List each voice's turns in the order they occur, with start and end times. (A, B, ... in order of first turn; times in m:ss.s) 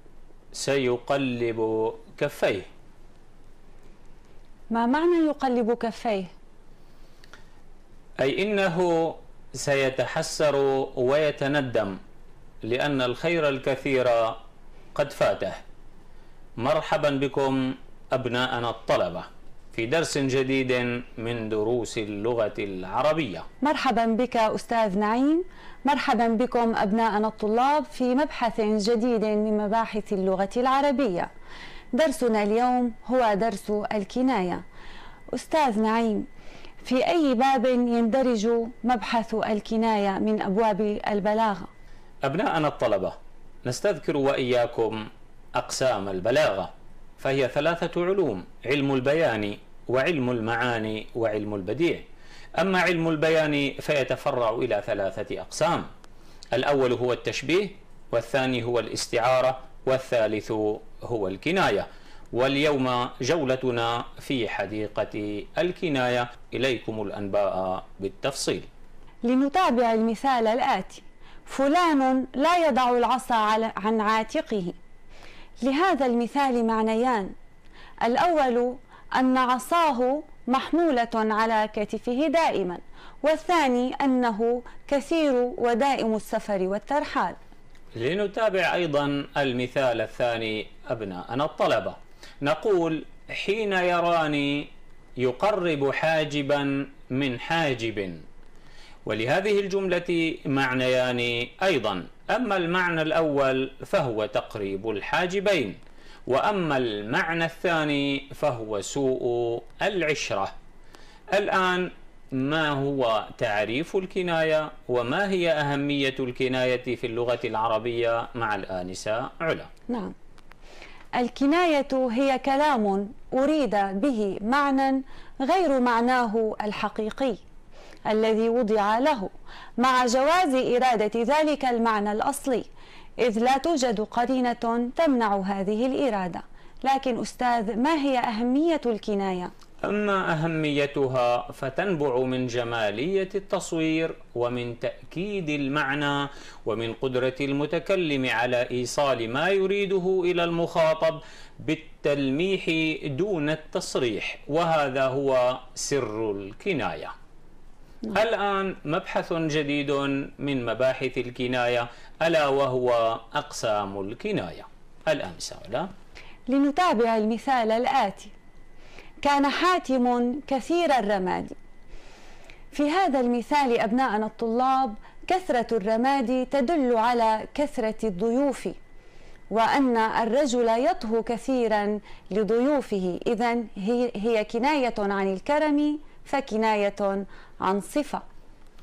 0:00.6-0:02.7 A
0:04.7-0:06.3 B
0:08.2-0:12.0 A
0:12.6-0:14.4 A
0:14.9-0:15.6 A
0:16.6-0:23.4 A
0:23.6-0:31.3 B
0:31.9-0:34.6 B
0:35.3-0:36.3 B
0:36.8-0:41.7 B
0:42.2-0:45.0 A
0:45.6-0:52.0 A
0:52.6-0:55.9 A
0:56.5-1:08.6 A
1:09.2-1:14.8 B
1:15.6-1:17.3 B
1:18.0-1:27.4 B
1:28.0-1:34.7 A
1:35.2-1:38.2 A
1:39.0-1:50.5 A
1:51.3-1:59.7 A
1:59.9-2:00.1 B
2:01.2-2:07.4 B
2:08.1-2:12.7 B
2:13.2-2:19.5 B
2:19.8-2:37.1 A
2:38.1-2:45.9 A
2:46.5-2:48.3 B
2:49.2-2:51.6 B
2:52.7-2:58.8 B
2:59.5-3:08.2 B